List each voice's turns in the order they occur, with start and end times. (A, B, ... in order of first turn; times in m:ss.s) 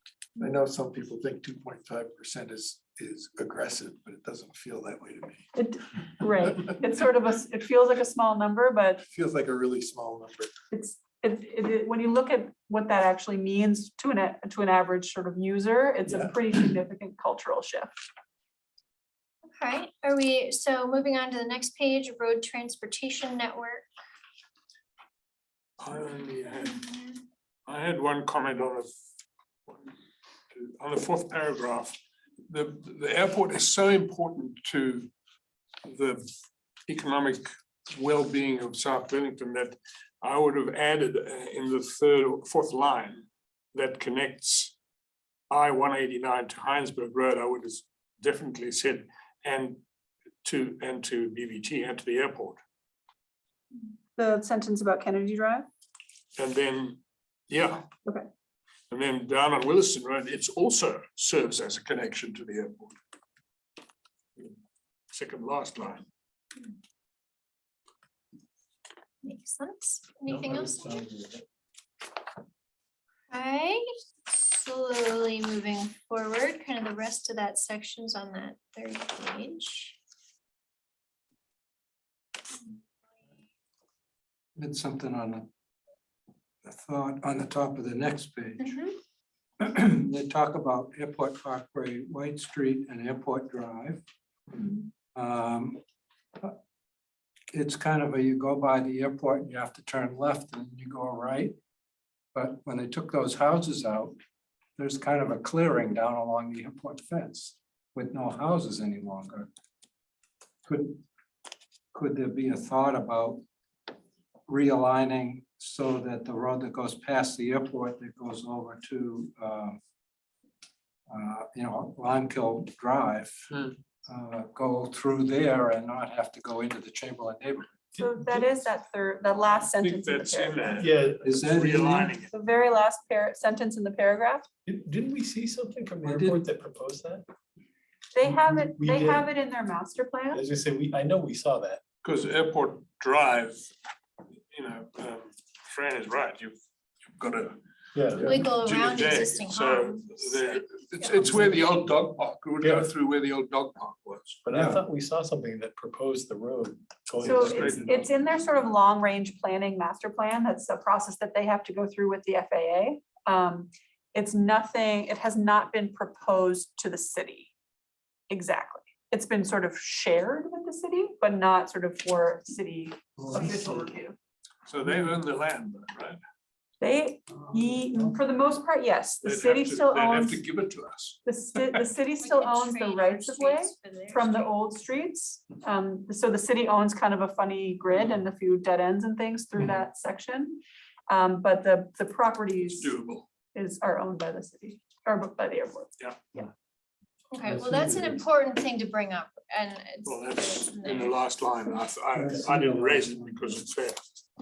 0:00.4-0:05.5 A
0:05.5-0:09.0 B
0:09.0-0:10.5 A
0:10.7-0:17.9 B
0:16.0-0:16.4 A
0:19.5-0:23.9 C
0:25.8-0:27.0 D
0:27.7-0:28.9 D
0:30.5-0:32.0 D
0:32.5-0:35.1 D
0:35.8-0:36.2 D
0:36.9-0:44.8 D
0:45.5-0:49.8 D
0:50.4-0:52.6 D
0:54.1-0:55.7 B
0:56.4-0:57.9 D
0:58.9-1:02.9 D
1:05.1-1:06.0 D
1:09.2-1:11.1 C
1:10.3-1:11.4 E
1:13.3-1:20.0 C
1:24.6-1:25.5 F
1:26.6-1:28.7 F
1:29.6-1:34.0 F
1:35.1-1:35.8 F
1:37.5-1:41.6 F
1:42.3-1:44.1 F
1:44.8-1:49.5 F
1:50.6-1:51.0 F
1:51.9-1:53.4 F
1:54.5-1:59.8 F
2:01.1-2:03.5 F
2:04.1-2:07.8 F
2:08.0-2:08.5 E
2:08.0-2:10.8 B
2:09.5-2:12.3 D
2:10.8-2:11.2 E
2:11.2-2:12.1 F
2:12.3-2:14.5 B
2:14.6-2:17.2 E
2:16.0-2:16.4 F
2:18.1-2:20.4 B
2:18.2-2:19.3 E
2:20.3-2:21.8 E
2:22.0-2:23.7 D
2:24.5-2:26.6 D
2:27.2-2:34.4 D
2:27.9-2:28.3 E
2:28.2-2:30.6 C
2:31.2-2:31.6 E
2:32.6-2:32.9 E
2:34.4-2:38.1 E
2:34.5-2:34.8 F
2:37.2-2:38.0 D
2:37.2-2:47.5 B
2:48.3-2:54.2 B
2:54.6-2:56.2 D
2:56.8-3:00.4 B
2:59.2-3:01.2 D
3:01.2-3:12.9 B
3:02.2-3:04.5 C
3:12.6-3:13.2 D
3:13.5-3:15.9 B
3:17.3-3:21.2 C
3:17.4-3:18.2 E
3:20.0-3:24.0 D
3:22.2-3:22.9 E
3:22.6-3:22.9 F